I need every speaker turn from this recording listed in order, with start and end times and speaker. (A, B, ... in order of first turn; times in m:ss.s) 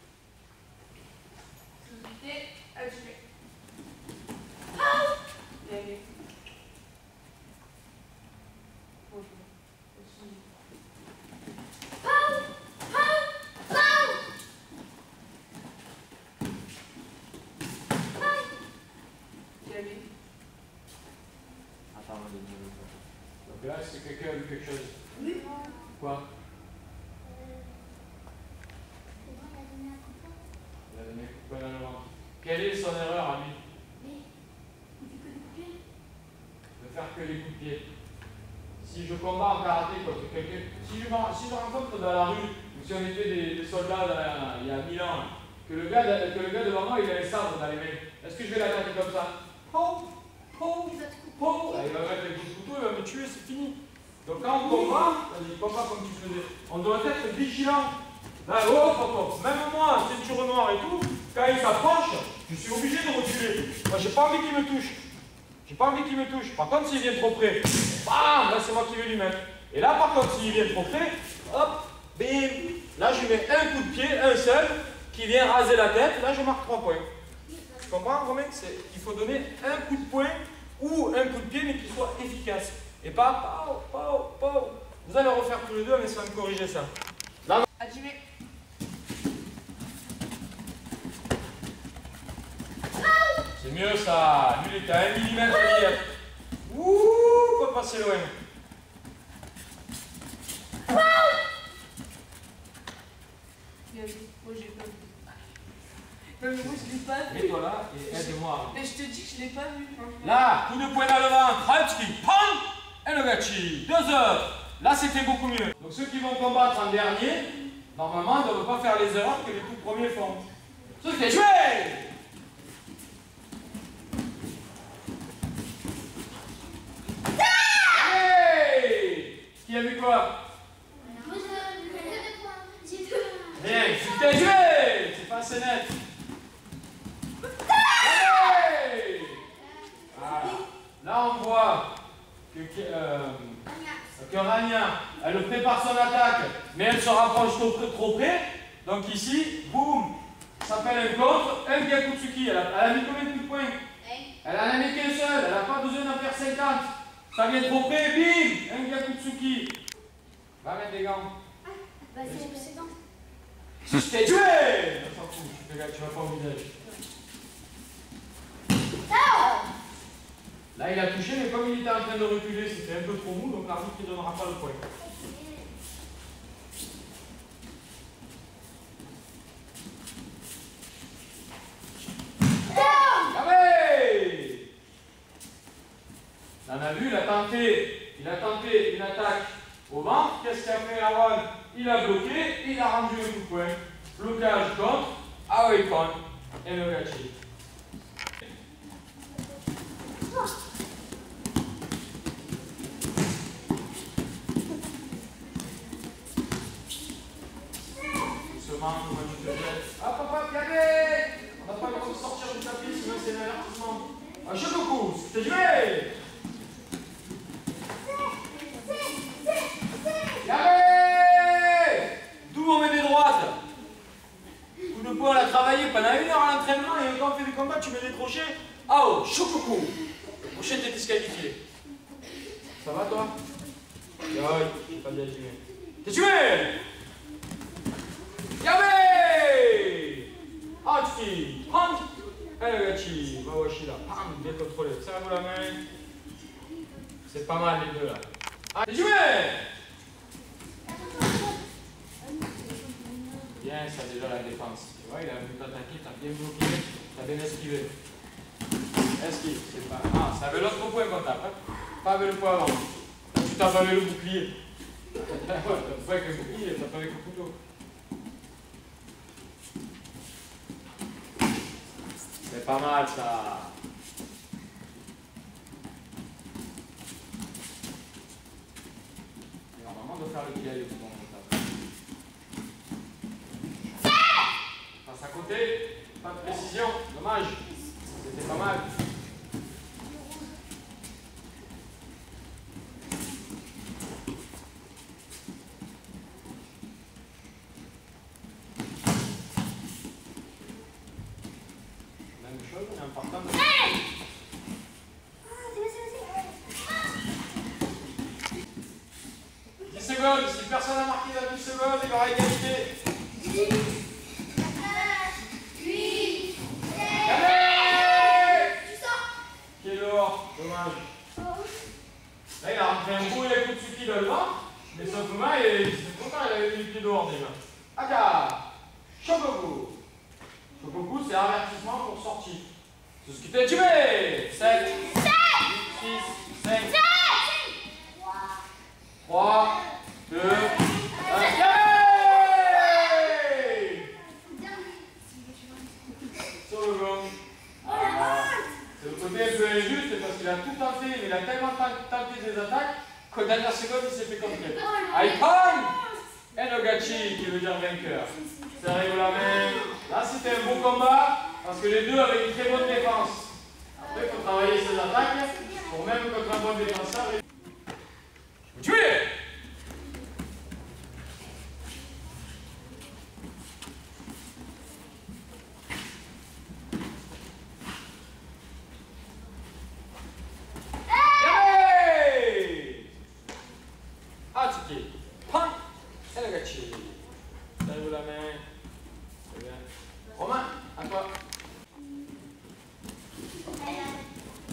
0:01.8-0:03.2 A
0:05.6-0:06.1 A
0:09.1-0:10.4 A
0:13.7-0:14.1 B
0:19.6-0:20.1 A
0:21.9-0:22.9 C
0:23.4-0:25.0 C
0:26.0-0:26.2 C
0:27.3-0:27.7 B
0:29.2-0:30.3 B
0:30.9-0:33.6 C
0:36.8-0:37.8 C
0:38.8-0:57.9 C
0:58.4-1:05.0 C
1:05.6-1:17.1 C
1:17.9-1:26.9 C
1:27.8-1:28.2 A
1:33.6-1:36.0 C
1:36.6-1:38.3 C
1:40.9-1:41.3 A
1:43.9-1:45.4 A
1:46.4-1:47.5 A
1:47.3-1:48.8 C
1:48.1-1:50.3 A
1:50.2-2:00.4 C
2:01.0-2:02.1 C
2:07.8-2:10.3 C
2:11.0-2:14.1 B
2:13.5-2:15.9 C
2:18.0-2:19.4 C
2:20.1-2:21.9 C
2:22.5-2:23.6 C
2:23.7-2:24.0 B
2:24.1-2:33.8 C
2:34.0-2:34.3 B
2:34.4-2:39.7 C
2:40.6-2:41.3 C
2:42.1-2:42.9 B
2:43.8-2:46.7 C
2:49.1-2:49.7 B
2:50.7-2:54.8 C
2:55.2-2:55.6 B
3:02.7-3:03.3 B
3:03.2-3:04.6 C
3:06.6-3:17.3 C
3:28.4-3:36.1 C
3:40.4-3:43.6 C
3:44.9-3:49.9 C
3:50.4-3:51.6 C
3:52.8-3:53.3 C
3:54.3-3:56.8 C
3:58.6-4:00.3 C
4:00.8-4:02.0 C
4:02.6-4:05.8 C
4:07.3-4:09.6 C
4:11.0-4:11.3 B
4:13.6-4:17.9 C
4:19.2-4:24.5 C
4:25.1-4:27.5 C
4:32.5-4:33.7 C
4:39.7-4:41.6 C
4:45.0-4:48.9 C
5:02.4-5:03.7 C
5:03.7-5:04.0 B
5:05.4-5:06.5 B
5:09.8-5:12.9 C
5:13.4-5:13.7 B
5:14.5-5:19.2 B
5:17.2-5:18.7 C
5:19.8-5:21.1 C
5:22.6-5:28.6 C
5:29.2-5:30.0 C
5:30.8-5:32.6 C
5:33.2-5:37.0 C
5:34.9-5:35.6 B
5:36.8-5:38.6 B
5:39.2-5:44.1 C
5:40.6-5:43.5 B
5:44.3-5:45.2 B
5:46.6-5:55.9 C
5:47.8-5:48.6 B
5:54.7-5:56.2 B
5:56.5-6:07.4 C
5:59.3-5:59.9 B
6:08.7-6:09.3 C
6:21.1-6:21.6 B
6:21.3-6:23.1 C
6:24.5-6:25.8 C
6:26.3-6:27.2 C
6:27.8-6:28.6 C
6:29.5-6:31.3 C
6:33.8-6:34.2 B